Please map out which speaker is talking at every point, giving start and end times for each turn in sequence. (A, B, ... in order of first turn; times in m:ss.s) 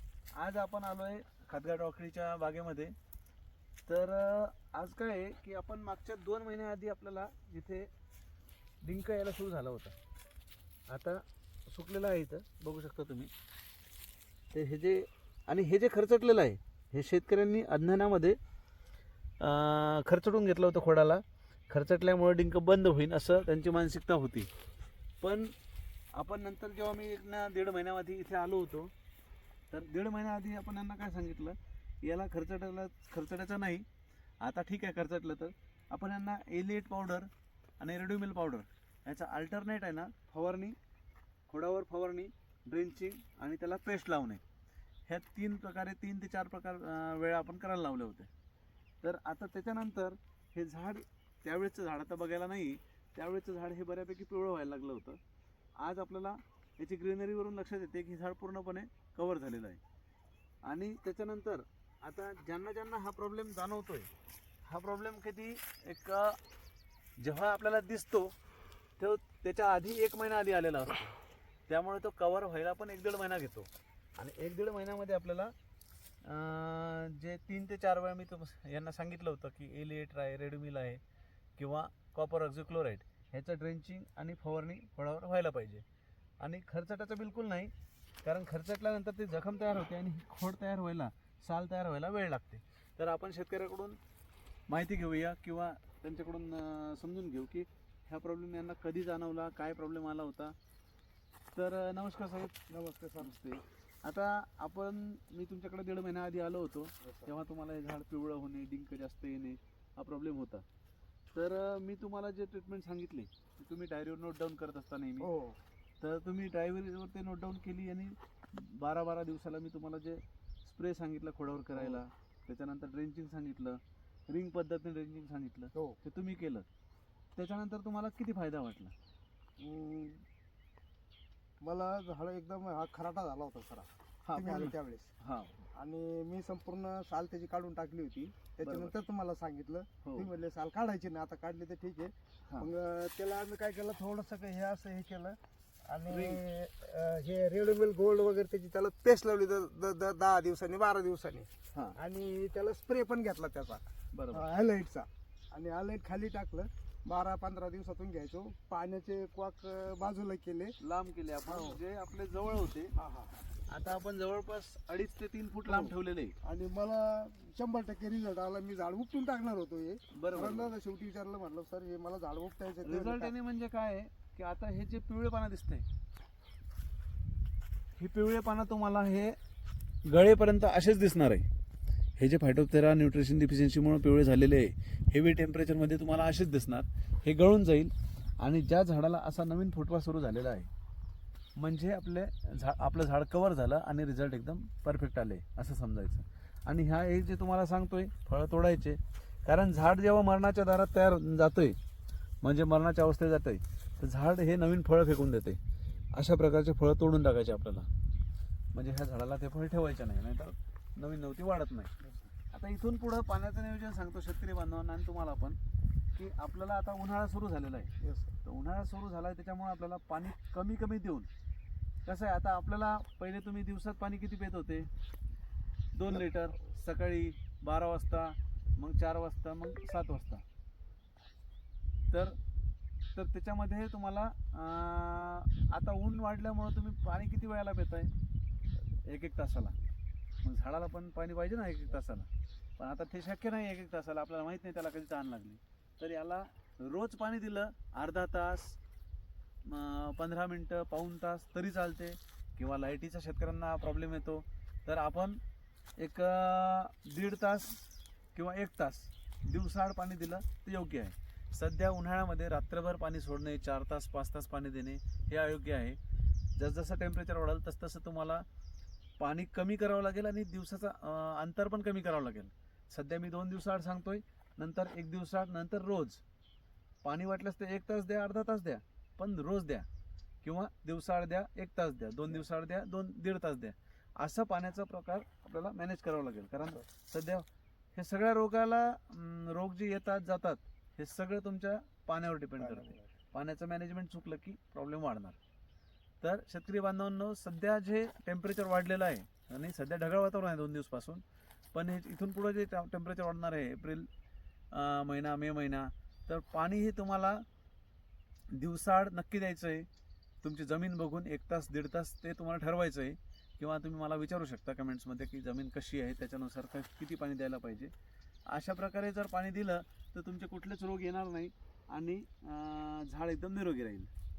0:00.4-0:03.0 A
0:03.9-0:07.9 A
0:08.8-0:10.0 A
0:10.9-0:13.3 A
0:14.5-0:18.4 A
0:19.4-0:24.5 A
0:25.2-0:25.5 A
0:26.2-0:28.9 A
0:29.7-0:33.8 A
0:34.4-0:37.3 A
0:37.8-0:40.8 A
0:41.5-0:44.4 A
0:45.1-0:48.3 A
0:49.0-0:55.2 A
0:55.8-0:59.8 A
1:00.6-1:04.1 A
1:04.7-1:06.4 A
1:07.2-1:08.3 A
1:09.0-1:11.2 A
1:11.7-1:15.5 A
1:16.2-1:21.0 A
1:21.6-1:25.8 A
1:26.4-1:27.7 A
1:28.2-1:34.0 A
1:34.7-1:40.6 A
1:41.6-1:42.6 A
1:42.7-1:43.3 B
1:43.2-1:50.6 A
1:47.0-1:47.3 B
1:51.3-1:55.3 A
1:55.2-1:55.6 B
1:56.0-2:06.7 A
2:01.8-2:02.0 B
2:07.4-2:09.0 A
2:09.6-2:10.2 B
2:11.6-2:15.1 B
2:14.3-2:15.7 A
2:15.8-2:40.8 B
2:18.6-2:18.9 A
2:20.0-2:20.3 A
2:26.1-2:26.4 A
2:34.1-2:34.5 A
2:40.8-2:42.9 A
2:41.5-2:41.8 B
2:43.0-2:43.3 B
2:43.7-2:46.4 A
2:45.7-2:53.3 B
2:50.1-2:50.7 A
2:52.8-2:55.8 A
2:58.0-2:59.4 A
3:00.1-3:01.5 A
3:02.2-3:10.7 A
3:11.6-3:21.8 A
3:22.4-3:25.6 A
3:26.1-3:27.9 A
3:28.7-3:31.9 A
3:32.0-3:32.3 B
3:32.5-3:35.6 A
3:36.2-3:37.9 A
3:38.0-3:38.3 B
3:38.4-3:41.3 A
3:42.0-3:44.9 A
3:45.9-3:50.4 A
3:52.1-3:52.4 A
3:53.2-3:58.1 A
3:59.0-3:59.8 A
4:00.4-4:08.8 A
4:09.7-4:15.4 A
4:16.0-4:17.8 A
4:18.4-4:26.0 A
4:26.6-4:28.4 A
4:29.2-4:36.2 A
4:37.0-4:39.9 A
4:40.4-4:55.4 A
4:52.7-4:53.0 B
4:56.2-5:01.2 A
5:01.7-5:04.1 A
5:04.7-5:07.4 A
5:08.5-5:09.9 A
5:10.4-5:17.9 A
5:18.5-5:24.1 A